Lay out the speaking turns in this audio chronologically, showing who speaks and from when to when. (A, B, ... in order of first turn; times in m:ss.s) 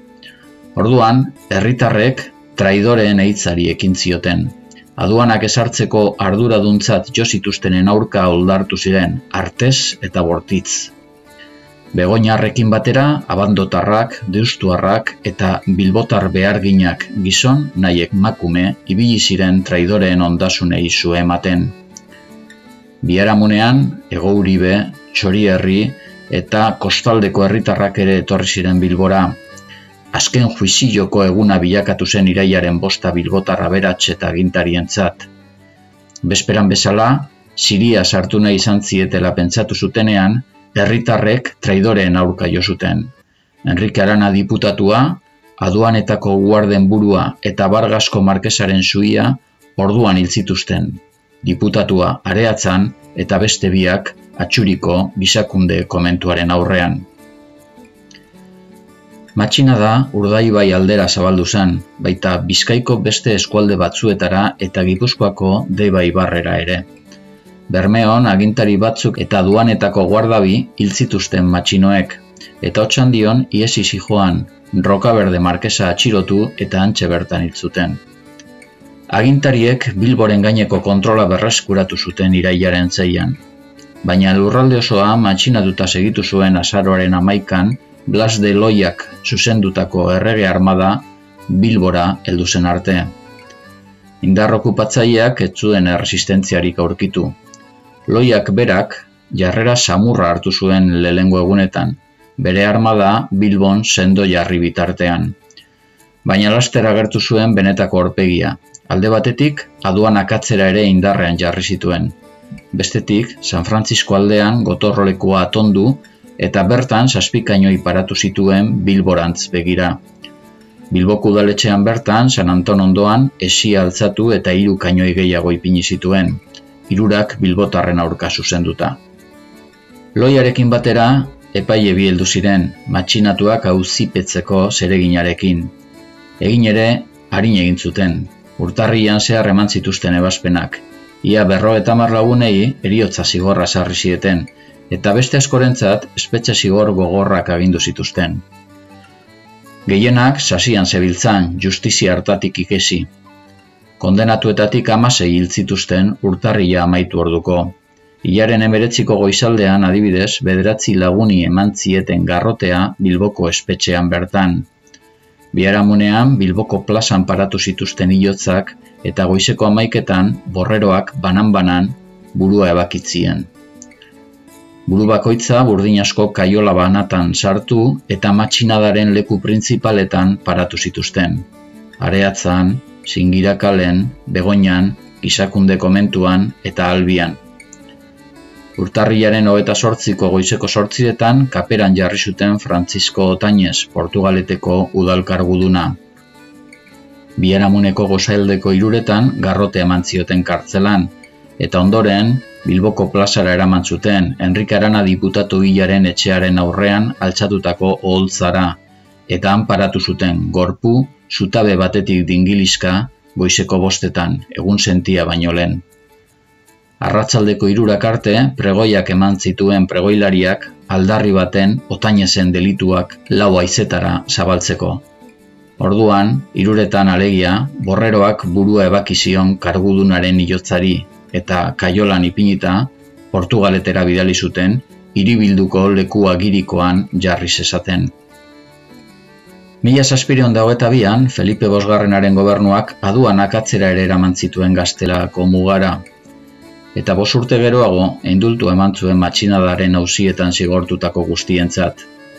0:00.8-0:10.9 A
0:11.9-0:21.8 A
0:23.0-0:29.4 A
0:30.1-0:35.3 A
0:36.2-0:57.1 A
0:59.4-1:06.9 A
1:07.7-1:18.0 A
1:19.1-1:23.4 A
1:24.0-1:33.1 A
1:34.2-1:37.4 A
1:38.1-1:45.4 A
1:46.2-1:52.2 A
1:52.7-2:00.0 A
2:00.9-2:09.0 A
2:10.2-2:15.7 A
2:16.4-2:28.4 A
2:29.9-2:33.1 A
2:34.0-2:44.7 A
2:45.5-2:53.5 A
2:54.9-3:01.5 A
3:02.0-3:07.4 A
3:08.8-3:16.0 A
3:17.4-3:35.8 A
3:37.0-3:45.1 A
3:45.8-3:58.1 A
3:59.8-4:06.0 A
4:07.0-4:12.1 A